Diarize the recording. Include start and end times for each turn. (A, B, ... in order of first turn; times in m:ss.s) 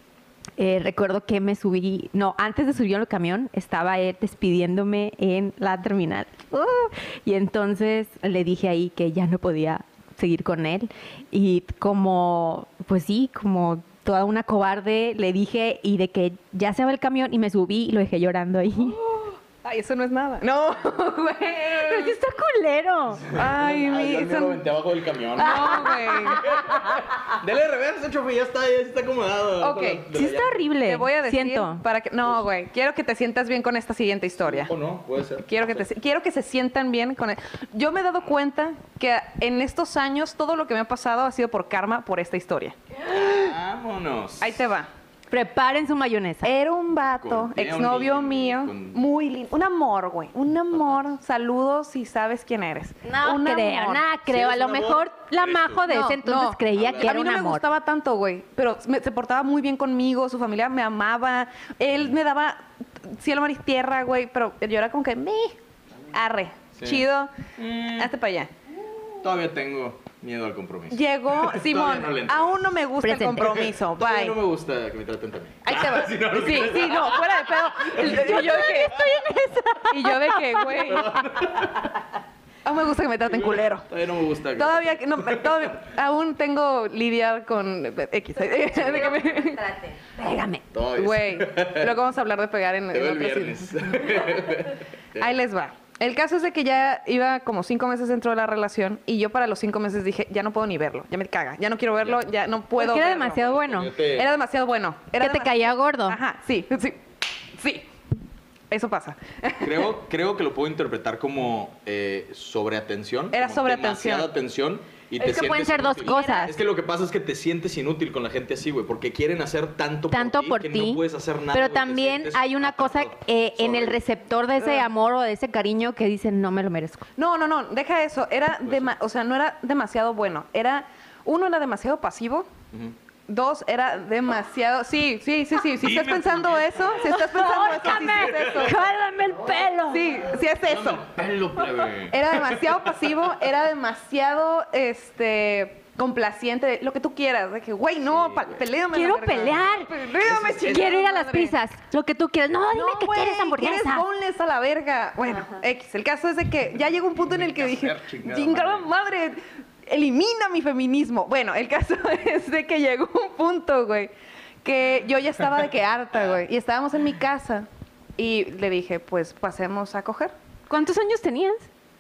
0:00.6-0:19.0 A
0:18.9-0:22.2 B
0:21.8-0:23.2 A
0:23.2-0:30.6 C
0:23.3-0:24.6 B
0:25.4-0:26.6 B
0:25.4-0:27.0 A
0:29.6-0:30.0 B
0:30.1-0:31.8 A
0:30.8-0:34.7 B
0:34.4-0:35.9 C
0:35.5-0:42.8 B
0:43.1-0:44.6 C
0:44.4-0:44.9 B
0:45.3-0:46.5 A
0:46.4-0:54.0 B
0:47.2-0:49.0 C
0:50.7-0:51.0 C
0:53.0-0:57.6 A
0:54.3-0:55.8 C
0:55.9-1:05.6 B
0:56.7-0:57.2 C
1:06.1-1:07.3 B
1:06.8-1:07.0 C
1:07.6-1:08.1 C
1:08.0-1:08.5 B
1:09.2-1:12.6 C
1:10.9-1:14.4 B
1:13.0-1:13.5 A
1:13.4-1:19.2 C
1:15.6-1:19.1 B
1:18.0-1:21.1 A
1:19.9-1:21.1 B
1:20.8-1:21.9 C
1:22.6-1:23.9 B
1:23.3-1:25.8 C
1:24.6-1:29.6 B
1:28.7-1:30.6 A
1:30.7-1:32.0 C
1:31.0-1:34.4 B
1:32.9-1:35.3 C
1:35.2-1:47.0 B
1:42.8-1:43.9 A
1:43.6-1:44.3 C
1:45.2-1:46.2 A
1:47.6-1:47.9 B
1:48.7-1:49.9 B
1:49.6-2:04.0 C
1:53.3-1:54.3 B
1:55.2-1:56.5 A
1:56.0-1:56.5 B
2:00.1-2:01.0 A
2:01.5-2:07.1 A
2:04.6-2:04.9 B
2:07.2-2:12.5 B
2:08.6-2:08.9 C
2:13.3-2:18.8 B
2:15.8-2:18.8 C
2:17.1-2:20.2 A
2:19.9-2:21.2 B
2:20.6-2:23.3 C
2:22.0-2:31.5 B
2:28.1-2:28.6 C
2:28.9-2:29.9 A
2:30.2-2:30.9 C
2:30.6-2:34.1 A
2:32.7-2:44.1 B
2:37.1-2:38.9 C
2:44.6-2:50.3 B
2:50.7-2:51.7 A